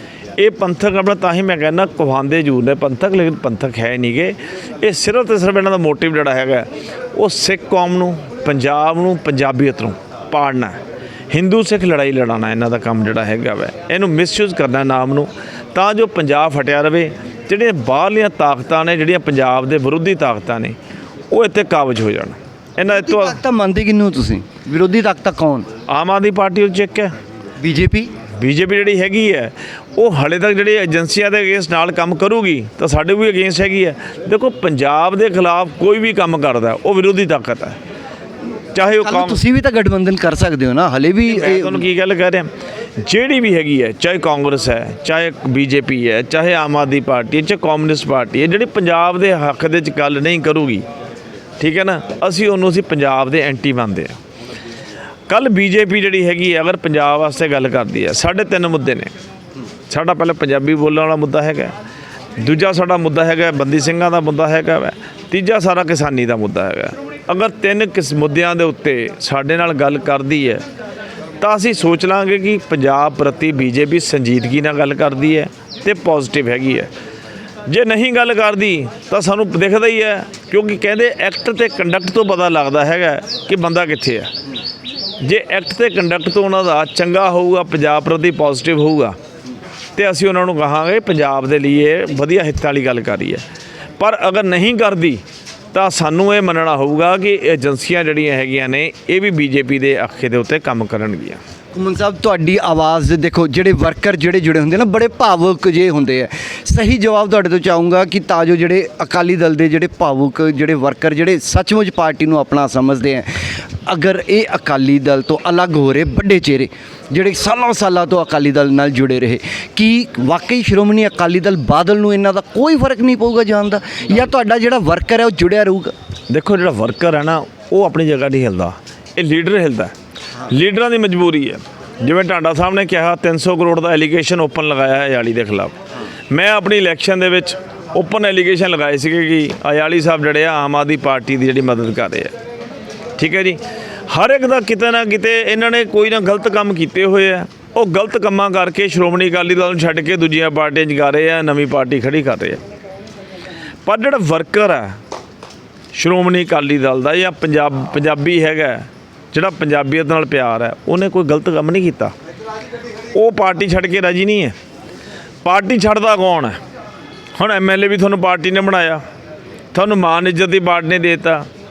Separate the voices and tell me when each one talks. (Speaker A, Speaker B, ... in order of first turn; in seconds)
Speaker A: 0.4-10.8, 11.3-20.8, 21.3-23.4, 25.9-27.1, 28.4-37.8, 38.8-39.4, 41.3-42.5, 43.0-50.8, 51.6-54.1, 55.3-59.1, 59.9-61.7, 62.4-70.6, 71.4-76.9, 77.7-84.3, 85.2-89.2, 90.0-93.4, 94.0-95.2, 95.7-101.4, 126.3-129.9, 130.5-135.8, 136.3-142.3, 143.2-152.6, 153.8-155.0, 155.9-162.1, 163.1-164.5, 165.4-166.6, 167.3-169.0, 169.7-171.5
Speaker B: 22.9-25.7, 27.6-28.1, 39.0-41.8, 101.7-113.3, 113.9-125.9